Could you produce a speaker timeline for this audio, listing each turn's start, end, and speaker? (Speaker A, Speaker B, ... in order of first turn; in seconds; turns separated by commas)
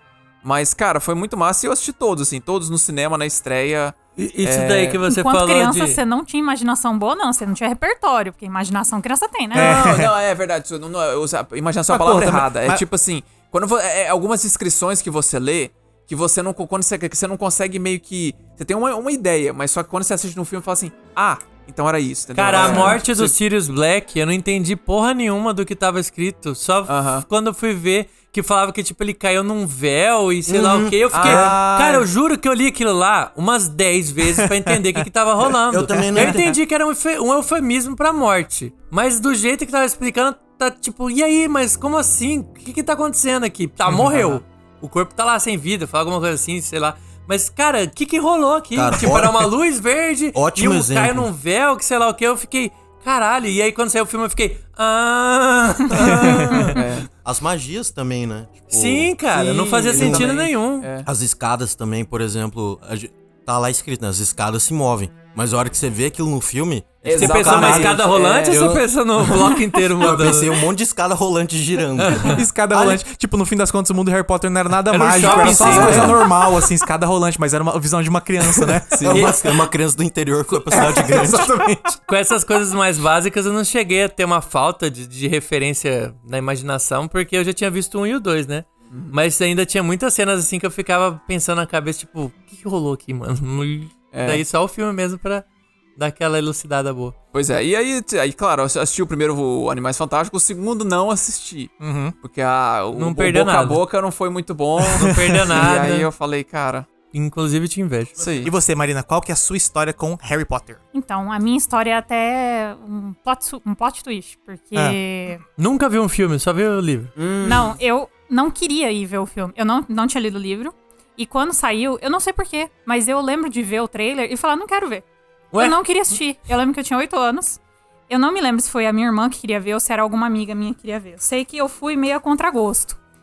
Speaker A: 0.4-5.0, Speaker B: 4.2-6.0, Speaker C: 5.0-9.9, Speaker A: 9.5-23.3, Speaker D: 9.5-10.1, Speaker D: 11.9-12.8, Speaker B: 22.3-56.9, Speaker E: 22.6-22.9, Speaker A: 26.9-27.3, Speaker E: 30.4-31.6, Speaker A: 31.1-32.0, Speaker D: 34.7-35.0, Speaker E: 35.7-36.4, Speaker D: 36.1-36.5, Speaker D: 43.9-44.4, Speaker E: 48.7-49.5, Speaker E: 50.3-51.3, Speaker D: 56.0-56.6, Speaker A: 56.1-57.1, Speaker E: 57.2-59.2, Speaker B: 58.7-60.9, Speaker A: 59.3-61.1, Speaker E: 59.9-60.3, Speaker E: 61.0-73.0, Speaker A: 67.0-68.8, Speaker B: 67.1-70.5, Speaker D: 67.5-67.9, Speaker B: 72.0-72.4, Speaker D: 72.3-79.0, Speaker B: 74.9-76.3, Speaker A: 75.2-76.3, Speaker E: 75.4-76.2, Speaker A: 78.9-79.3, Speaker E: 79.0-81.5, Speaker B: 79.1-79.3, Speaker D: 80.7-82.0, Speaker B: 82.1-95.5, Speaker A: 88.9-89.2, Speaker A: 94.1-94.4, Speaker B: 96.0-97.1, Speaker A: 97.3-106.9, Speaker D: 101.8-102.2, Speaker B: 103.0-103.8, Speaker B: 104.9-106.1, Speaker D: 105.0-105.5, Speaker B: 107.1-108.2, Speaker A: 108.2-108.5, Speaker D: 108.4-110.8, Speaker C: 110.9-115.4, Speaker B: 115.6-117.1, Speaker A: 117.2-117.8, Speaker C: 117.4-133.0